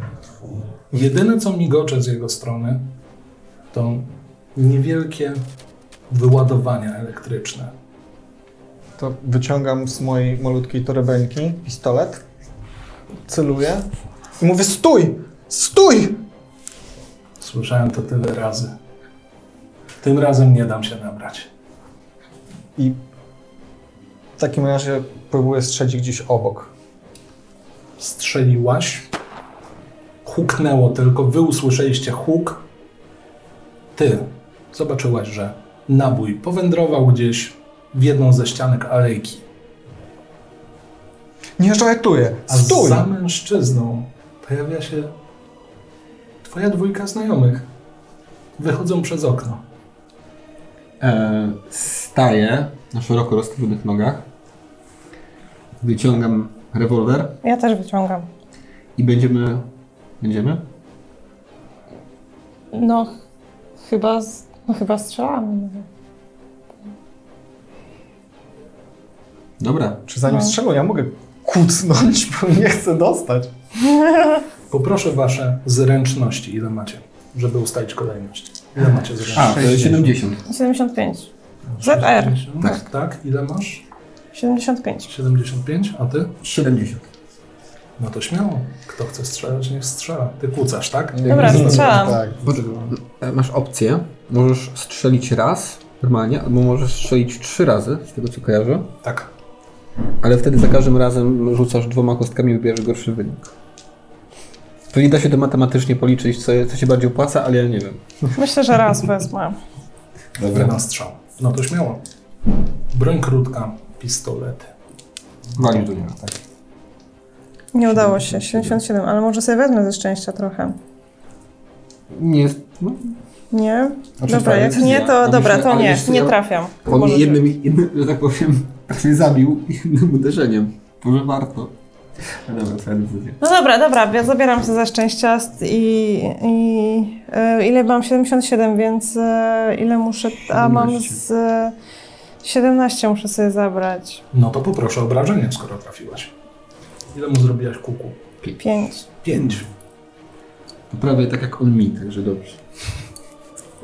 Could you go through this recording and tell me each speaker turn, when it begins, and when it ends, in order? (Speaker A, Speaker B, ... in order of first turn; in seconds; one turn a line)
Speaker A: 0.9-2.9
Speaker A: 3.7-5.4
Speaker A: 6.1-7.7
Speaker B: 9.0-12.2
Speaker B: 13.3-13.9
Speaker B: 14.4-16.2
Speaker A: 17.4-18.7
Speaker A: 20.0-21.5
Speaker B: 24.4-26.7
Speaker A: 28.0-29.1
Speaker A: 30.2-32.7
Speaker A: 34.0-39.5
Speaker B: 41.6-43.1
Speaker A: 42.5-45.1
Speaker A: 46.4-47.7
Speaker A: 48.6-49.6
Speaker C: 51.0-54.3
Speaker C: 55.8-57.4
Speaker D: 57.4-58.3
Speaker C: 59.0-59.7
Speaker C: 60.2-60.6
Speaker D: 62.7-63.1
Speaker D: 63.8-65.9
Speaker C: 69.6-70.0
Speaker B: 70.1-73.5
Speaker D: 70.3-70.6
Speaker D: 74.1-74.3
Speaker A: 74.7-80.1
Speaker B: 79.2-80.0
Speaker C: 79.3-80.4
Speaker D: 80.5-81.3
Speaker A: 81.8-83.8
Speaker D: 81.8-82.4
Speaker D: 84.3-85.1
Speaker A: 85.1-86.4
Speaker C: 86.4-87.1
Speaker A: 88.0-92.1
Speaker B: 91.1-92.9
Speaker C: 91.2-98.9
Speaker D: 91.3-92.2
Speaker A: 99.0-99.3
Speaker C: 100.2-103.5
Speaker C: 104.9-108.0
Speaker D: 108.4-109.6
Speaker C: 110.4-110.8
Speaker A: 110.5-112.0
Speaker A: 112.9-114.7
Speaker C: 115.5-116.4
Speaker D: 117.7-120.8
Speaker C: 117.8-118.8
Speaker C: 122.1-123.2
Speaker D: 123.5-127.4
Speaker C: 124.2-131.7
Speaker C: 132.2-133.4
Speaker D: 133.4-141.8
Speaker C: 140.4-141.2
Speaker D: 142.4-144.2
Speaker A: 144.3-146.3
Speaker A: 147.1-148.2
Speaker D: 148.6-149.0
Speaker A: 149.2-149.7
Speaker C: 149.4-149.6
Speaker C: 150.9-152.6